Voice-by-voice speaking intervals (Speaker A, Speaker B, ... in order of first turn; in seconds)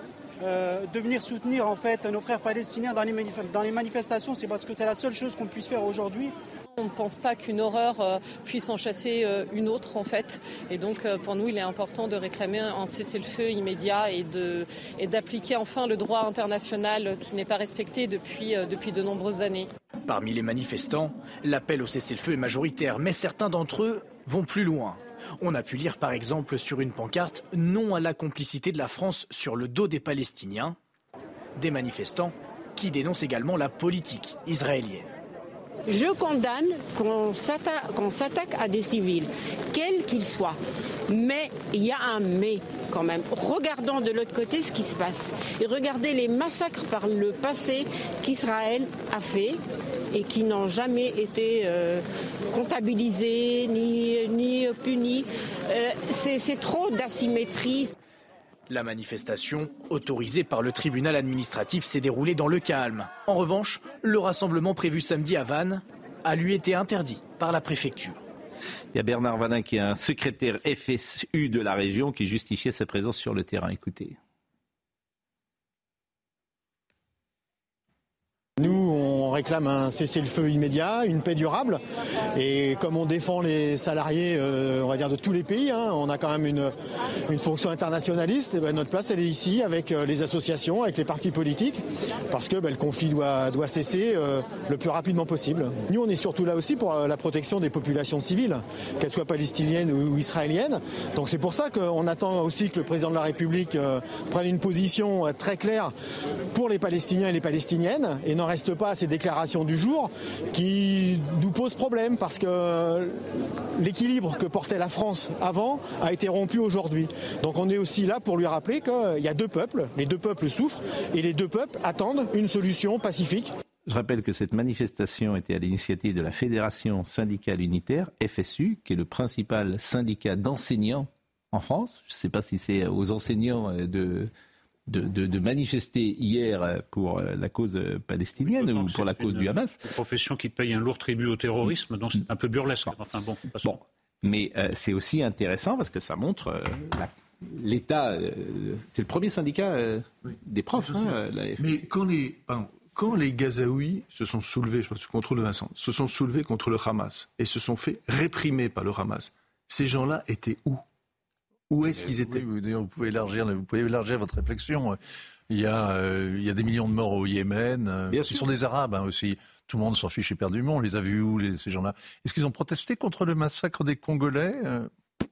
Speaker A: 0.4-6.3
Speaker B: 6.8-19.7
Speaker C: 20.1-30.8, 31.6-35.1, 58.7-68.2
Speaker D: 35.9-40.6, 41.1-49.6, 50.1-57.9
Speaker E: 68.9-74.2, 123.9-134.3, 134.9-139.8, 143.6-151.8, 168.1-168.4
Speaker F: 78.6-81.8, 82.4-86.7, 87.3-91.8, 92.3-105.9, 106.5-113.2, 113.8-123.5
Speaker G: 138.4-143.8
Speaker H: 150.9-160.8, 161.7-162.4
Speaker I: 161.9-165.0, 165.5-174.9